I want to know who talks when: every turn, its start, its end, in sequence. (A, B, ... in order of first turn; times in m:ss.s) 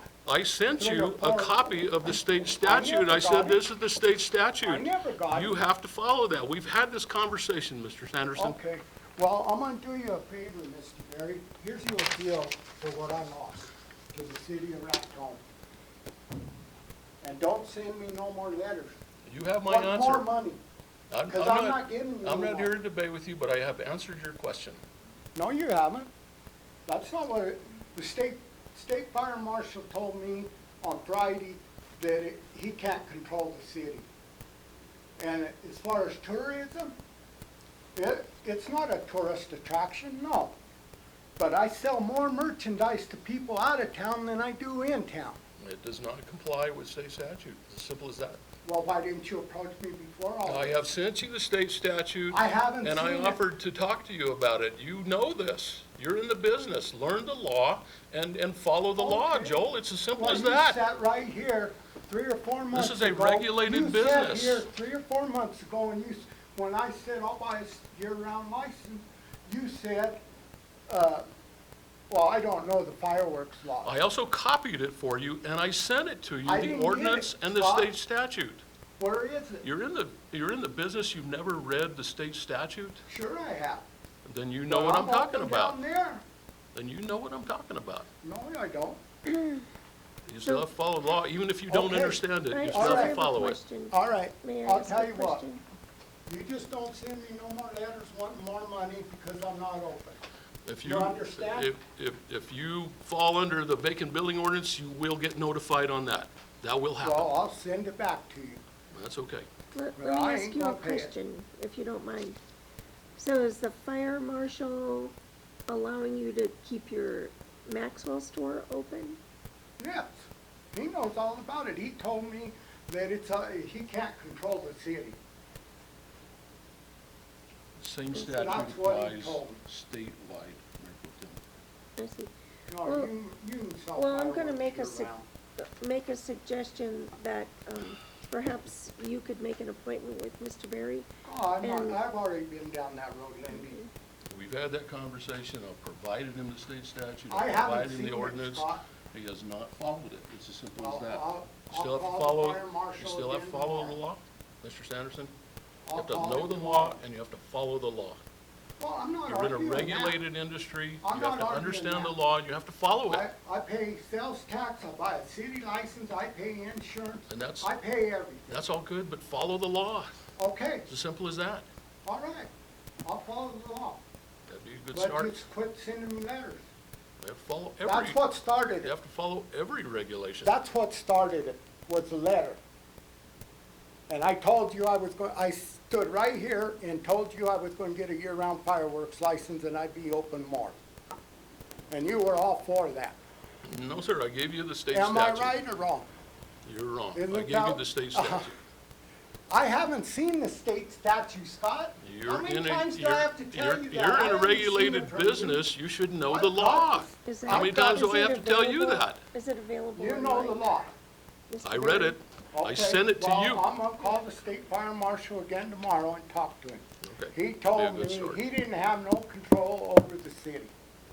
0:00.2-0:08.6 A
0:00.8-0:01.6 B
0:02.6-0:03.6 B
0:04.6-0:05.6 B
0:08.4-0:15.4 B
0:17.2-0:19.0 B
0:19.3-0:20.3 A
0:19.7-0:20.6 B
0:21.1-0:24.8 A
0:21.3-0:22.7 B
0:25.4-0:26.1 B
0:26.9-0:34.1 B
0:35.2-0:36.9 B
0:38.0-0:40.6 B
0:41.4-0:45.4 B
0:45.6-0:48.4 A
0:48.6-0:50.8 B
0:50.4-1:00.8 A
0:52.3-0:53.4 B
0:59.0-0:59.6 B
1:00.2-1:10.2 B
1:02.7-1:04.6 A
1:10.9-1:11.2 B
1:12.1-1:14.0 B
1:13.8-1:18.6 A
1:16.4-1:17.9 B
1:19.0-1:19.7 B
1:19.6-1:23.0 A
1:23.1-1:23.9 B
1:24.2-1:25.8 A
1:24.7-1:26.2 B
1:26.7-1:28.1 A
1:28.2-1:29.0 B
1:29.4-1:29.6 C
1:30.3-1:33.6 A
1:31.7-1:33.2 B
1:32.5-1:35.6 C
1:33.9-1:35.5 B
1:36.3-1:40.2 B
1:40.6-1:47.4 A
1:40.8-1:41.7 B
1:47.0-1:48.6 B
1:48.9-1:49.5 A
1:49.8-1:52.4 C
1:50.0-1:51.1 B
1:53.2-1:55.1 C
1:55.7-1:59.2 C
1:59.8-2:05.2 B
2:07.8-2:11.4 A
2:08.1-2:08.6 C
2:08.3-2:09.6 B
2:12.0-2:12.3 C
2:12.7-2:15.3 B
2:12.8-2:13.1 C
2:14.0-2:21.1 C
2:21.2-2:23.8 B
2:21.6-2:22.0 C
2:23.5-2:23.9 C
2:24.3-2:35.3 A
2:27.3-2:28.9 B
2:30.8-2:34.0 B
2:35.9-2:37.0 B
2:36.0-2:38.2 A
2:38.8-2:40.2 B
2:39.3-2:43.3 A
2:41.0-2:42.2 B
2:43.1-2:48.6 B
2:47.3-2:47.7 A
2:48.5-2:50.2 A
2:50.4-2:50.9 B
2:50.9-2:51.7 A
2:52.0-2:52.5 B
2:53.0-2:54.0 B
2:54.5-2:55.4 A
2:54.9-2:56.6 B
2:57.2-2:58.2 A
2:57.8-2:58.9 B
2:58.8-3:00.6 A
3:00.4-3:02.6 B
3:04.1-3:10.8 B
3:11.9-3:13.2 B
3:13.6-3:15.6 A
3:14.9-3:16.1 B
3:16.6-3:18.6 A
3:17.1-3:18.5 B
3:19.5-3:25.7 B
3:22.0-3:29.2 A
3:26.3-3:28.0 B
3:27.3-3:30.7 C
3:30.0-3:30.9 B
3:31.5-3:32.2 C
3:31.6-3:33.7 A
3:32.5-3:40.7 B
3:37.0-3:38.4 A